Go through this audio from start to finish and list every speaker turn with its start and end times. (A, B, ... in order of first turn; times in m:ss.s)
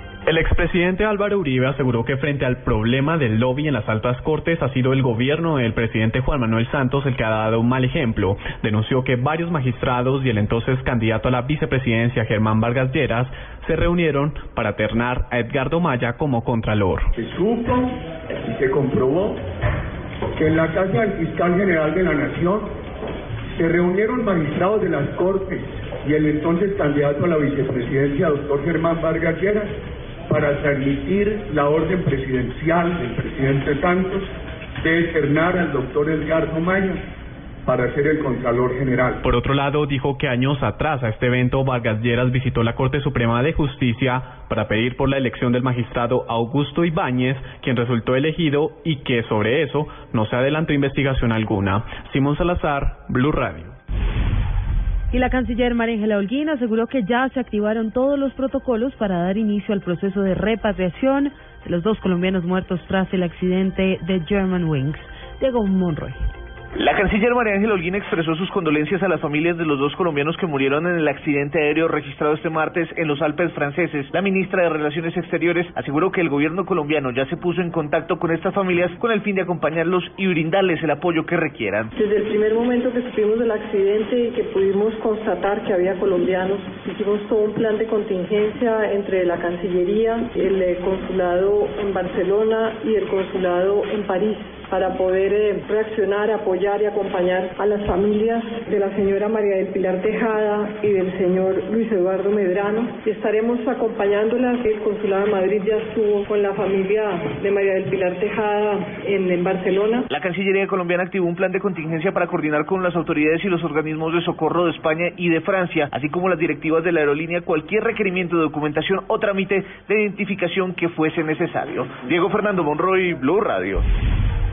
0:00.3-0:17.1 A
0:17.2-0:19.4 B
0:20.4-0:22.7 B
0:23.5-0:29.7 B
0:30.3-0:37.0 B
0:37.6-0:39.2 B
0:39.2-0:53.8 A
0:55.1-1:06.2 C
1:06.8-1:21.9 D
1:22.0-1:50.1 E
1:50.1-2:03.9 D